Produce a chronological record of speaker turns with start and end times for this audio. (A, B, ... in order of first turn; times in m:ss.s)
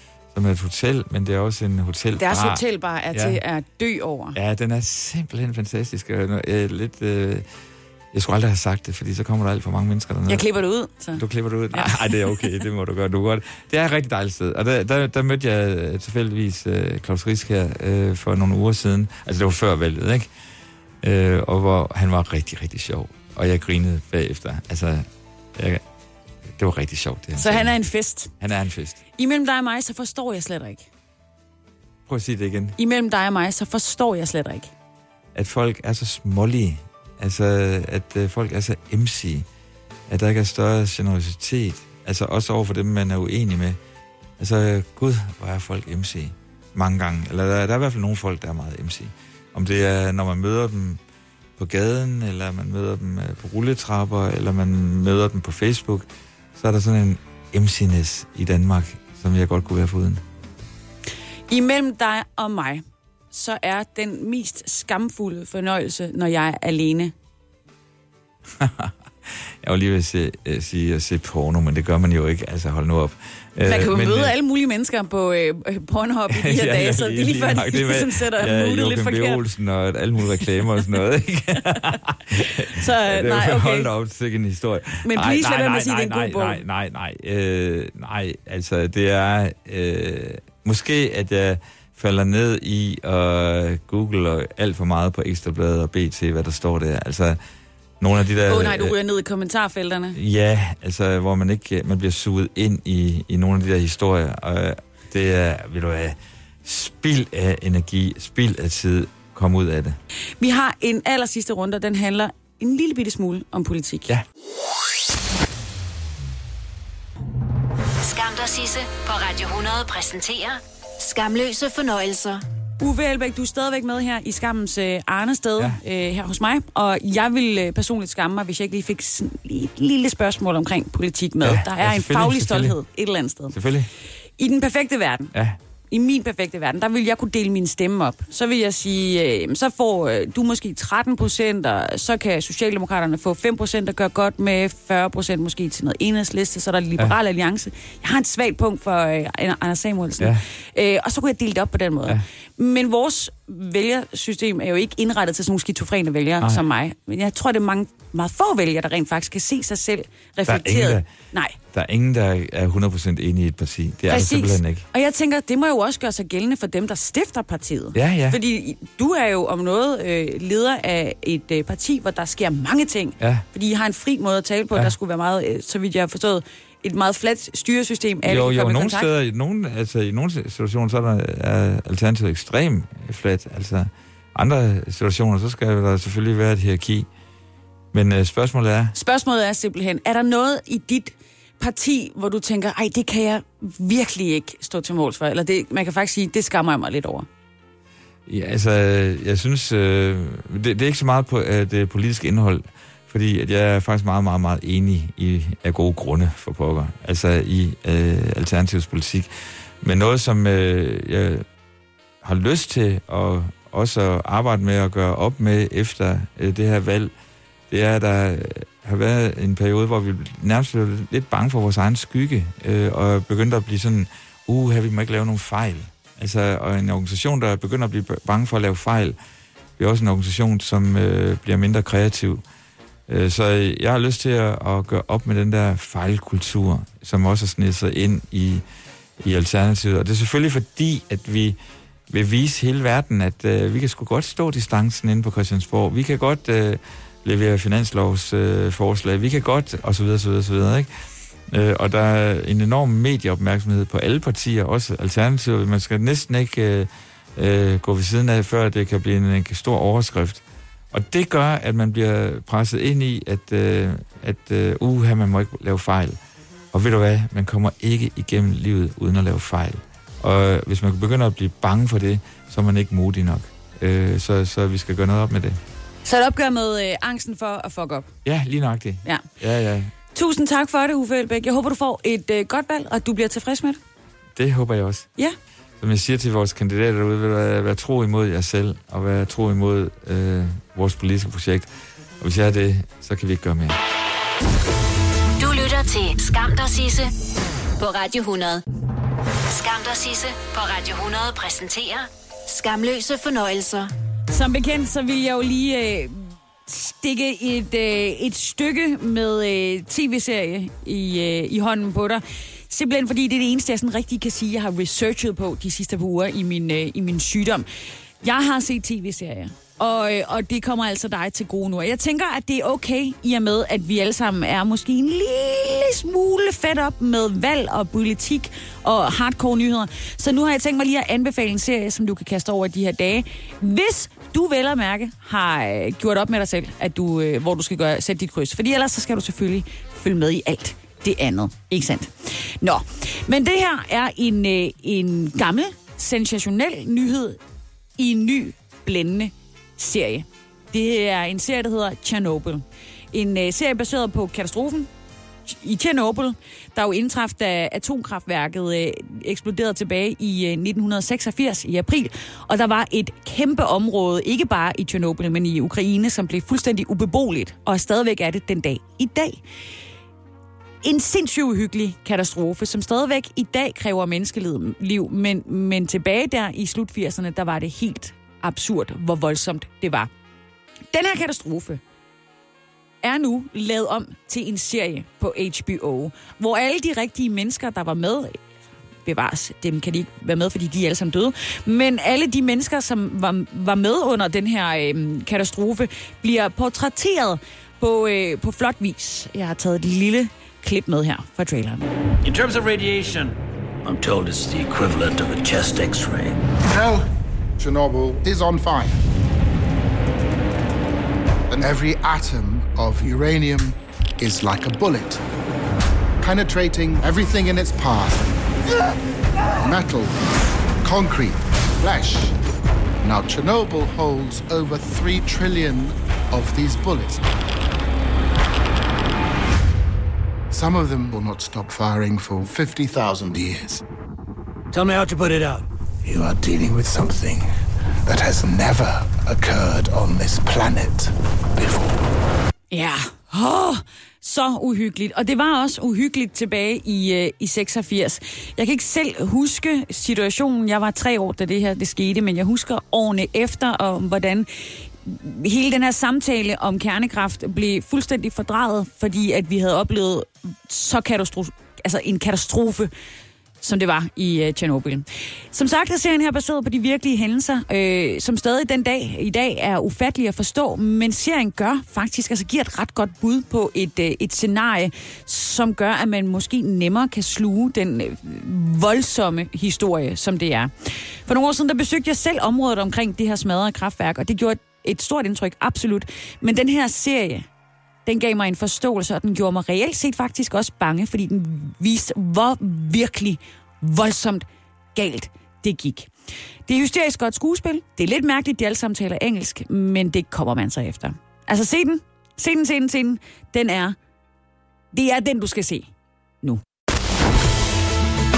0:00.3-0:03.4 A
0:02.2-0:04.4 B
0:04.4-0:07.4 A
0:08.1-0:10.4 A
0:10.3-0:12.2 B
0:11.1-0:20.3 A
0:21.0-0:25.8 A
0:26.6-0:27.8 A
0:27.4-0:28.3 B
0:28.4-0:29.0 A
0:29.2-0:30.9 B
0:32.1-0:32.8 A
0:32.8-0:34.7 B
0:35.4-0:39.4 A
0:40.1-0:43.8 A
0:44.4-0:51.0 A
0:51.6-1:00.2 A
1:01.5-1:07.1 B
1:08.6-1:14.3 A
1:13.6-1:19.4 B
1:16.3-1:37.4 A
1:22.7-1:23.9 B
1:25.0-1:26.6 B
1:38.0-1:39.0 A
1:38.5-1:40.2 B
1:40.1-1:50.0 A
1:50.4-1:54.1 B
1:58.0-2:02.4 C
2:02.8-2:13.6 B
2:11.4-2:12.8 A
2:13.5-2:13.9 A
2:14.4-2:15.3 B
2:15.9-2:41.6 B
2:40.5-2:41.1 A
2:41.7-2:44.8 A
2:44.1-2:59.1 B
2:48.0-2:48.4 A
2:58.2-3:07.1 A
3:07.9-3:09.0 A
3:09.0-3:17.3 B
3:18.3-3:29.3 A
3:29.8-3:31.4 A
3:32.2-3:37.1 A
3:37.7-3:49.2 A
3:49.8-3:52.4 A
3:53.1-3:58.6 A
3:59.2-4:01.6 A
4:02.1-4:10.9 A
4:11.5-4:26.2 A
4:26.7-4:35.6 A
4:36.0-4:38.1 B
4:38.2-4:39.9 A
4:40.1-4:43.8 B
4:44.4-4:45.1 A
4:45.8-4:51.7 A
4:52.2-4:53.8 A
4:55.4-4:57.1 C
4:57.8-4:58.6 C
4:59.5-5:03.9 C
5:04.3-5:17.7 B
5:18.2-5:47.4 B
5:48.0-5:54.9 B
5:55.5-6:09.4 B
6:10.8-6:20.1 B
6:20.9-6:21.8 B
6:23.0-6:28.4 B
6:29.0-6:41.8 B
6:42.2-6:46.4 D
6:46.7-6:47.1 E
6:47.6-6:49.0 E
6:51.5-6:55.2 E
6:56.2-6:58.3 E
6:59.6-7:00.1 E
7:00.8-7:02.4 E
7:03.0-7:07.2 E
7:10.5-7:13.8 E
7:14.8-7:15.6 D
7:16.0-7:17.5 E
7:18.1-7:21.9 E
7:22.7-7:42.9 B
7:43.6-8:07.5 B
8:08.1-8:16.1 B
8:16.7-8:24.0 B
8:24.9-8:25.9 B